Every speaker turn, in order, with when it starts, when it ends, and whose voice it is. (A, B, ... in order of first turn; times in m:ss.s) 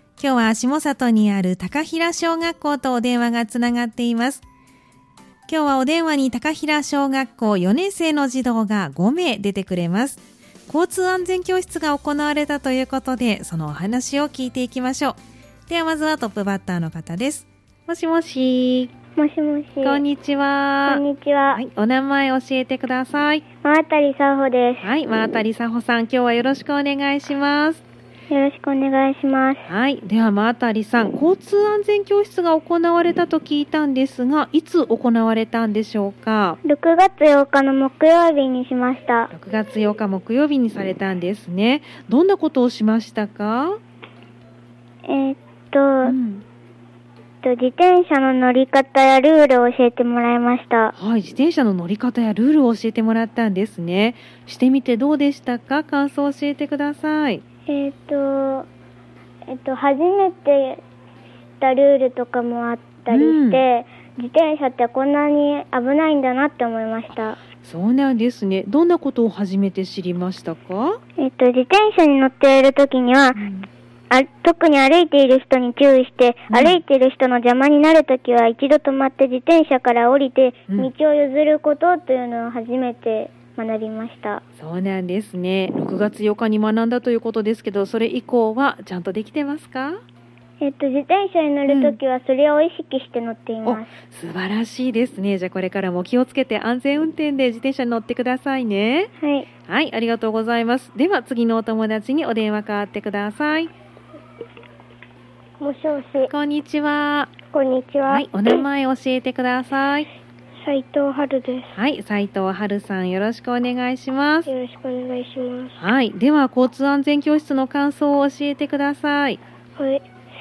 0:00.2-0:04.4 A
0:05.5-0:18.9 A
0:19.2-0:20.0 B
0:19.8-0:23.4 A
0:20.9-0:21.6 B
0:23.6-0:24.9 B
0:24.8-0:27.8 A
0:28.3-0:29.6 B
0:29.7-0:36.6 A
0:36.6-0:39.3 B
0:39.3-0:43.8 A
0:45.0-0:46.1 B
0:46.0-0:46.4 A
0:47.4-0:50.9 B
0:51.0-0:57.4 A
0:57.7-0:58.7 B
0:59.5-1:00.8 B
1:01.6-1:07.4 B
1:03.1-1:03.6 A
1:07.6-1:11.0 A
1:11.2-1:13.4 B
1:13.4-1:13.7 A
1:14.1-1:24.4 B
1:16.5-1:16.8 A
1:24.6-1:30.0 A
1:30.6-1:33.9 B
1:31.7-1:32.0 A
1:33.6-1:39.1 A
1:39.2-1:39.5 B
1:39.7-1:43.7 A
1:45.6-1:46.3 C
1:46.3-1:47.3 A
1:47.5-1:48.6 C
1:48.0-1:50.1 A
1:50.6-1:51.8 C
1:51.8-1:54.5 A
1:54.5-1:55.8 C
1:55.8-1:59.4 A
1:59.8-2:00.0 C